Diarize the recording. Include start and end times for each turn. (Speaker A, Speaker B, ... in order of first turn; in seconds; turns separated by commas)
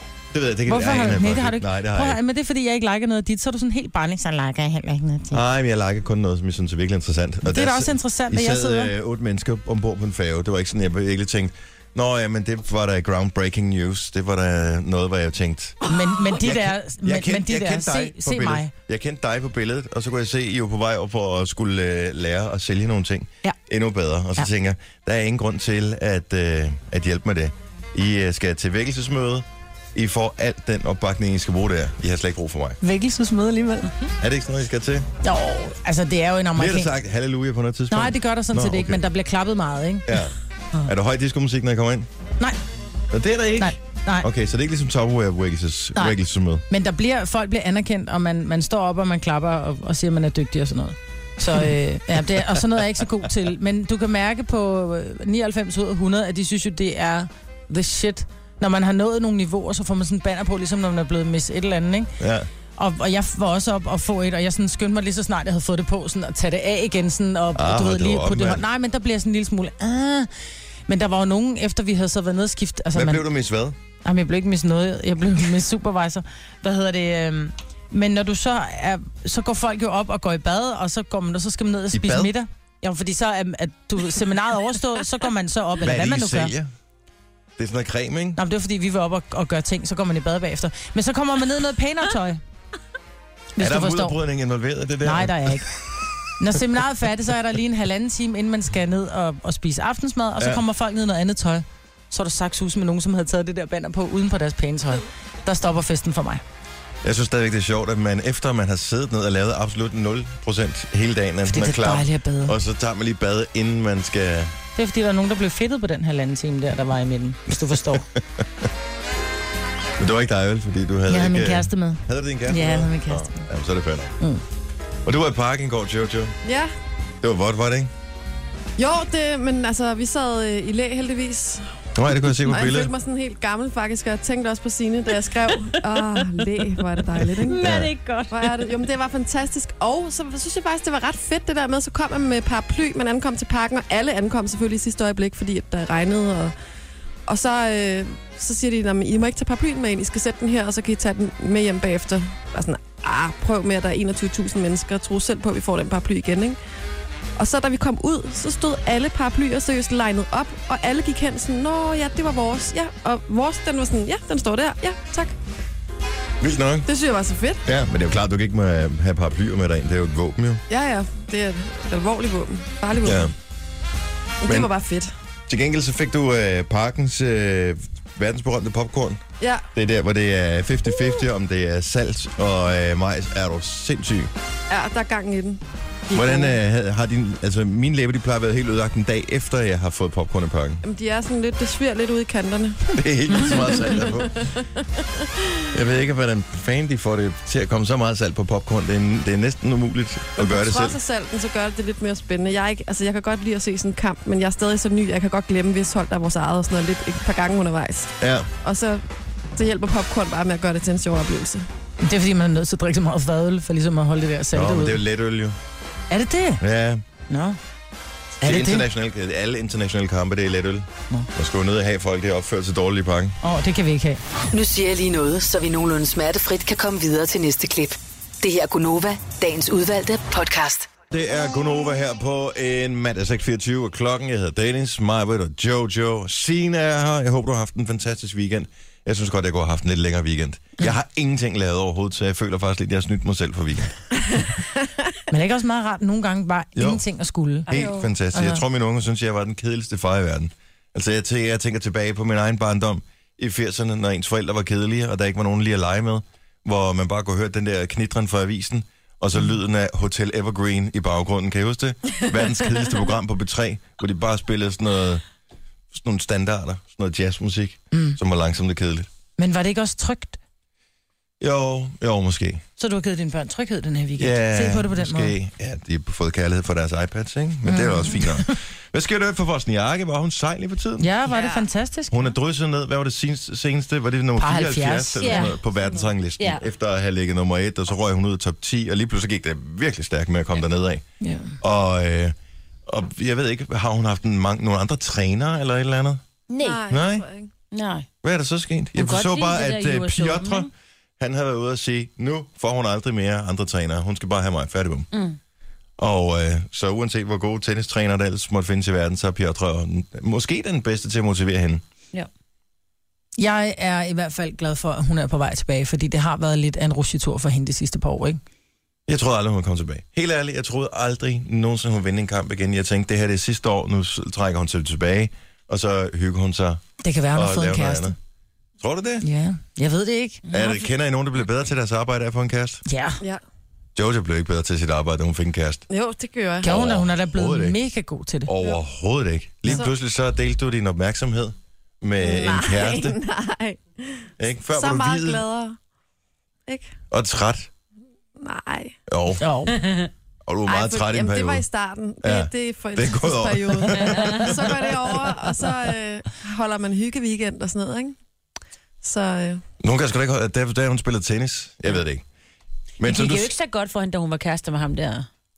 Speaker A: 0.3-2.2, Speaker B: 0.7-5.4, Speaker A: 5.3-15.8, Speaker B: 7.5-8.9, Speaker B: 15.8-18.7, Speaker A: 16.3-32.8, Speaker B: 32.8-33.9, Speaker A: 34.2-35.1, Speaker B: 35.2-36.9, Speaker A: 36.5-39.0, Speaker B: 37.9-40.1, Speaker A: 40.1-40.3, Speaker A: 40.8-42.1, Speaker A: 43.1-46.6, Speaker B: 43.6-44.3, Speaker B: 46.7-62.1, Speaker A: 62.2-62.5, Speaker B: 62.8-70.3, Speaker A: 67.5-68.6, Speaker B: 70.9-73.2, Speaker A: 72.9-73.8, Speaker B: 74.0-86.5, Speaker A: 81.9-82.3, Speaker A: 85.8-86.7, Speaker A: 87.6-88.4, Speaker B: 88.3-92.4, Speaker B: 93.5-94.2, Speaker A: 93.6-95.8, Speaker B: 95.0-95.7, Speaker B: 96.4-106.4, Speaker A: 100.4-100.6, Speaker A: 107.0-114.5, Speaker B: 111.5-112.5, Speaker B: 114.8-118.1, Speaker A: 117.9-118.4, Speaker A: 120.0-124.2, Speaker B: 121.1-123.5, Speaker A: 125.0-126.3, Speaker C: 126.4-126.7, Speaker A: 127.2-127.9, Speaker C: 128.8-137.7, Speaker A: 131.9-132.9, Speaker D: 135.6-138.7, Speaker A: 137.6-137.9, Speaker C: 138.3-146.5, Speaker C: 147.3-156.6, Speaker C: 157.3-165.3, Speaker A: 166.4-166.9, Speaker C: 166.9-167.6, Speaker A: 167.6-170.6, Speaker C: 170.7-173.3, Speaker A: 173.0-173.3, Speaker C: 174.4-175.1, Speaker A: 174.4-174.7, Speaker A: 175.5-179.2, Speaker C: 179.4-179.7, Speaker A: 179.7-184.3, Speaker C: 184.7-186.6, Speaker A: 186.1-190.8, Speaker C: 190.8-195.7, Speaker A: 192.9-194.5, Speaker A: 195.7-201.0, Speaker C: 200.4-209.0, Speaker A: 208.2-208.5, Speaker C: 209.6-211.7, Speaker B: 212.0-215.0, Speaker A: 214.5-215.6, Speaker B: 216.1-216.6, Speaker A: 216.6-217.0, Speaker B: 217.3-217.6, Speaker A: 218.4-223.4, Speaker B: 218.4-218.9, Speaker B: 223.4-224.2, Speaker E: 224.5-230.9, Speaker A: 231.1-243.9, Speaker B: 245.3-247.7, Speaker A: 246.8-247.0, Speaker A: 247.7-265.2, Speaker C: 247.7-248.1, Speaker B: 248.3-248.6, Speaker A: 265.9-269.1, Speaker B: 267.9-268.2, Speaker B: 269.4-270.4, Speaker A: 271.4-272.6, Speaker B: 272.8-275.3, Speaker A: 274.2-281.3, Speaker B: 277.6-278.5, Speaker B: 281.0-282.2, Speaker C: 281.3-281.7, Speaker A: 282.1-291.0, Speaker B: 284.4-285.5, Speaker D: 285.2-285.6, Speaker D: 286.4-286.6, Speaker B: 291.2-291.6, Speaker A: 291.6-292.3, Speaker A: 292.9-296.2, Speaker D: 296.5-296.8, Speaker C: 296.6-297.5, Speaker A: 296.9-297.2, Speaker D: 297.7-298.1, Speaker A: 298.2-305.1, Speaker D: 298.9-300.7, Speaker D: 305.1-305.4, Speaker A: 306.0-311.8, Speaker B: 313.4-318.4, Speaker A: 319.1-328.1, Speaker B: 327.0-328.1, Speaker A: 328.8-329.2, Speaker B: 329.2-330.4, Speaker D: 330.4-330.9, Speaker A: 330.5-332.8, Speaker B: 332.9-333.2, Speaker A: 333.9-335.8, Speaker C: 335.9-336.7, Speaker A: 336.6-337.8, Speaker B: 336.6-338.5, Speaker A: 338.4-343.2, Speaker C: 342.2-345.8, Speaker A: 344.4-345.4, Speaker C: 346.7-346.9, Speaker A: 347.1-347.7, Speaker C: 348.4-348.9, Speaker A: 349.1-349.4, Speaker B: 349.4-349.8, Speaker D: 349.8-350.1, Speaker A: 350.4-351.6, Speaker C: 350.7-358.1, Speaker A: 352.2-354.8, Speaker D: 353.9-354.5, Speaker C: 359.0-359.6, Speaker A: 359.8-362.2, Speaker A: 363.0-363.5, Speaker D: 363.0-365.3